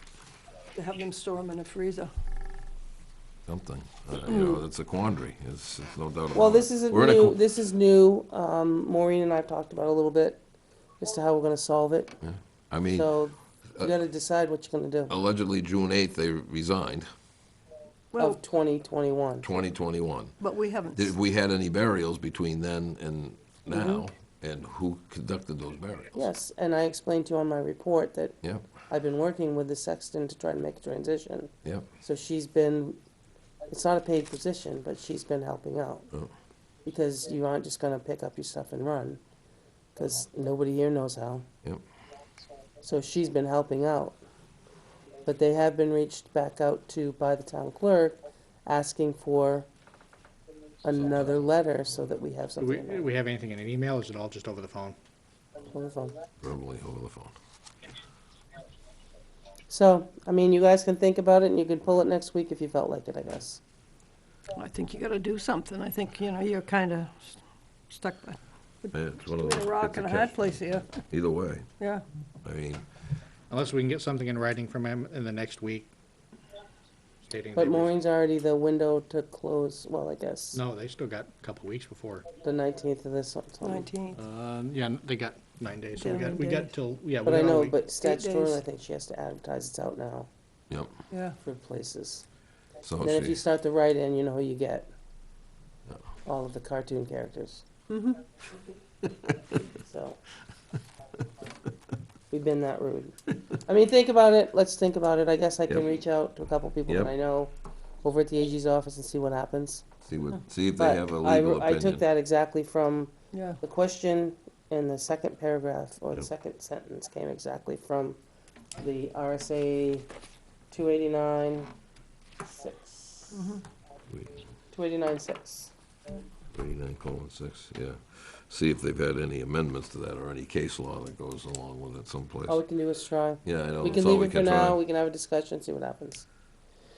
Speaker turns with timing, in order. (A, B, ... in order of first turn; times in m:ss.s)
0:00.8-0:02.1 A
0:03.5-0:07.4 B
0:06.3-0:10.4 C
0:11.0-0:12.2 C
0:12.2-0:13.1 B
0:12.9-0:15.2 C
0:15.1-0:17.1 B
0:18.1-0:18.4 A
0:18.2-0:19.5 C
0:19.4-0:20.4 B
0:20.4-0:21.2 A
0:20.9-0:26.2 B
0:23.7-0:24.0 C
0:26.2-0:28.4 C
0:28.4-0:28.7 B
0:28.9-0:33.0 C
0:33.7-0:36.1 C
0:36.8-0:39.2 C
0:40.0-0:41.5 C
0:42.8-0:44.2 C
0:45.2-0:49.7 C
0:50.8-0:53.1 C
0:51.0-0:51.4 B
0:52.6-0:55.0 D
0:55.7-0:56.2 C
0:56.4-0:57.4 B
0:59.7-1:03.6 C
1:04.6-1:11.0 A
1:08.9-1:11.7 B
1:12.4-1:12.8 B
1:13.5-1:15.9 D
1:17.2-1:17.9 D
1:17.5-1:20.6 C
1:20.5-1:22.3 D
1:22.4-1:23.9 C
1:23.6-1:24.2 A
1:24.2-1:27.8 D
1:26.0-1:26.7 A
1:27.2-1:30.3 C
1:28.0-1:28.6 A
1:31.1-1:31.4 A
1:31.4-1:32.2 C
1:32.8-1:33.4 B
1:33.0-1:34.9 C
1:36.2-1:37.6 C
1:37.9-1:38.2 A
1:39.1-1:39.3 B
1:39.8-1:40.2 C
1:42.3-1:49.8 C
1:46.9-1:47.1 B
1:50.1-1:52.0 B
1:50.8-1:58.2 C
1:53.3-1:53.6 A
1:58.8-2:00.1 C
2:00.7-2:01.7 C
2:02.4-2:03.4 C
2:03.3-2:03.6 A
2:04.1-2:04.4 B
2:04.7-2:05.7 C
2:06.5-2:12.6 B
2:12.5-2:16.3 C
2:13.4-2:14.8 B